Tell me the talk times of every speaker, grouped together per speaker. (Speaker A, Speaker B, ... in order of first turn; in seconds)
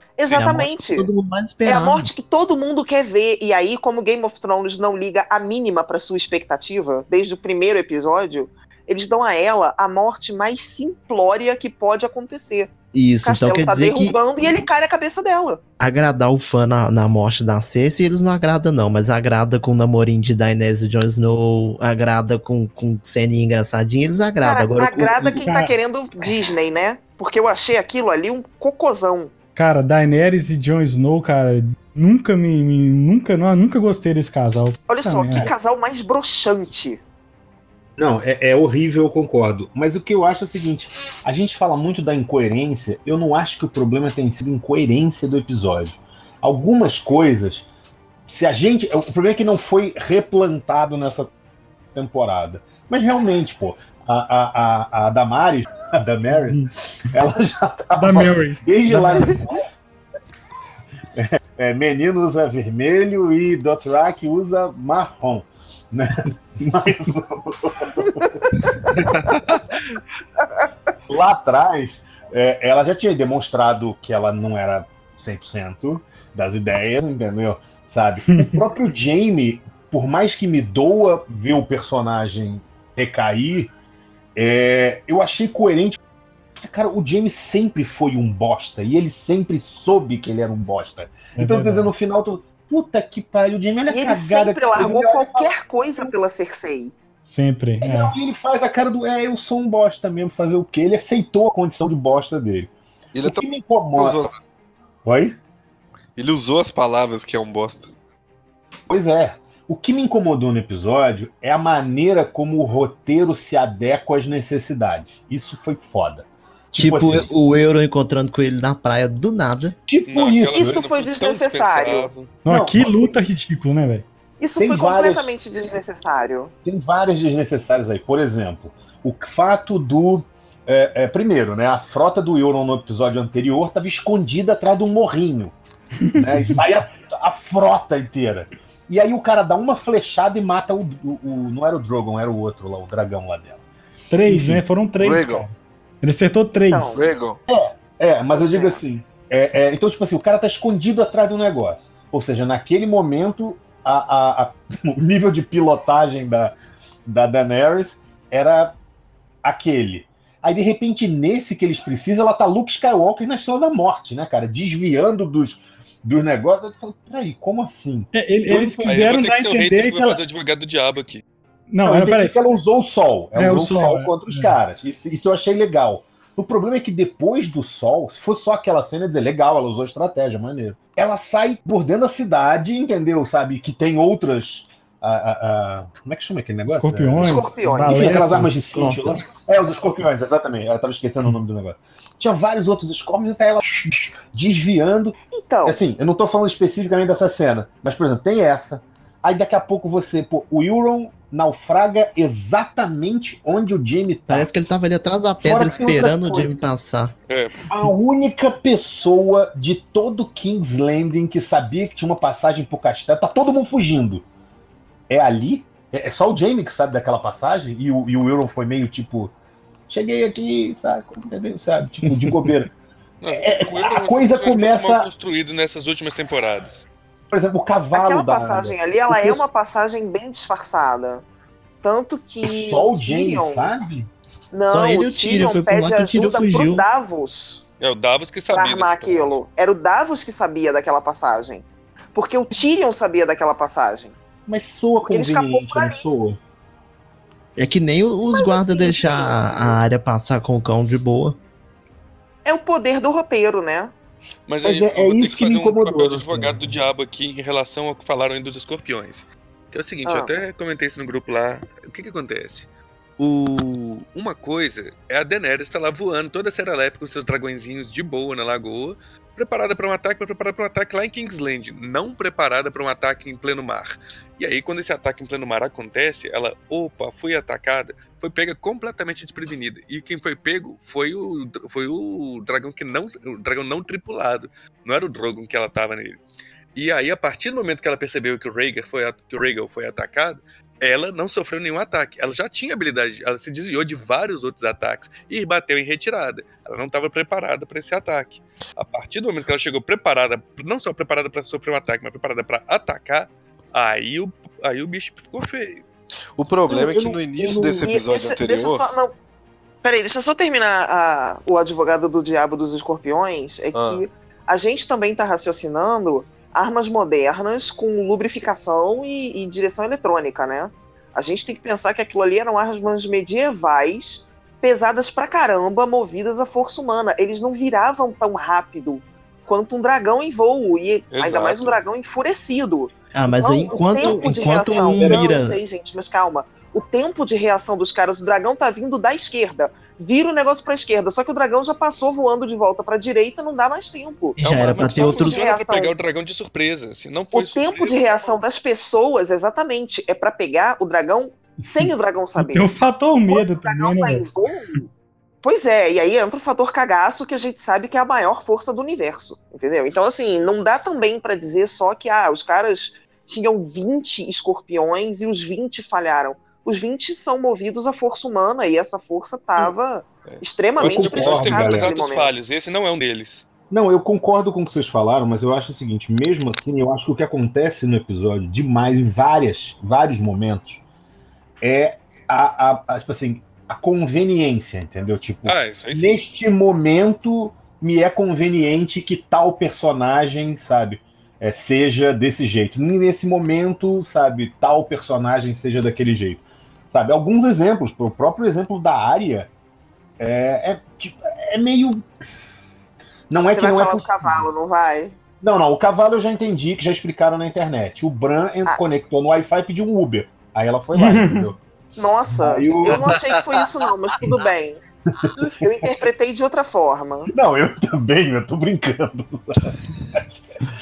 Speaker A: 0.2-1.1, 1.6-15.6, 24.4-29.3, 34.9-37.0, 93.9-97.0, 120.5-122.1, 124.4-126.5, 146.7-147.1, 148.3-148.8, 187.2-188.1, 195.3-195.8, 227.9-231.2, 231.8-233.7, 234.5-237.6, 238.5-244.2, 245.0-246.0, 248.3-249.8, 252.4-253.9, 260.1-260.3, 307.5-309.1, 309.8-345.9, 347.3-354.8, 355.4-372.3, 403.5-405.2, 412.0-414.8, 415.6-417.3
Speaker B: 0.3-2.1, 12.9-14.2, 15.8-25.5, 116.7-119.8, 187.9-189.4, 204.3-207.1, 234.7-236.9, 247.6-251.4, 333.1-335.6, 344.4-345.4
Speaker C: 25.4-25.7, 29.6-35.5, 56.3-56.7, 58.0-59.4, 78.3-78.6, 91.4-91.9, 97.2-98.1, 122.5-124.0, 136.1-136.6, 144.1-147.0, 168.1-170.2, 171.7-172.4, 173.3-174.5, 186.7-188.6, 351.6-354.9, 410.9-411.5
Speaker D: 38.0-47.7, 48.3-51.3, 52.0-59.6, 61.2-69.4, 71.1-83.7, 84.3-86.0, 86.6-95.5, 97.8-102.7, 103.2-104.2, 105.0-105.4, 108.9-117.3, 119.9-120.8, 122.5-123.0, 124.6-125.3, 126.7-135.6, 136.2-143.6, 144.3-144.6, 147.5-156.6, 157.1-158.8, 159.4-169.1, 171.8-204.5, 205.4-206.5, 207.7-214.2, 215.1-219.3, 219.9-222.7, 223.3-225.1, 227.3-229.4, 232.4-234.1, 244.5-246.4, 254.6-256.7, 306.7-307.7, 334.0-335.3, 370.8-371.9, 373.7-380.8, 381.6-399.5, 400.2-402.0, 403.3-404.4, 405.4-411.6, 412.3-413.2, 415.2-415.7, 417.3-420.3
Speaker E: 69.2-70.0, 103.1-104.5, 106.2-107.9, 145.0-145.5, 146.9-147.4, 306.4-308.9, 313.7-314.1
Speaker F: 120.1-122.3, 168.8-171.2, 207.3-207.7, 223.2-226.8, 237.8-239.4, 254.5-262.7, 263.2-286.2, 286.8-305.8, 331.1-331.8, 344.4-348.0, 370.3-373.4, 385.4-386.2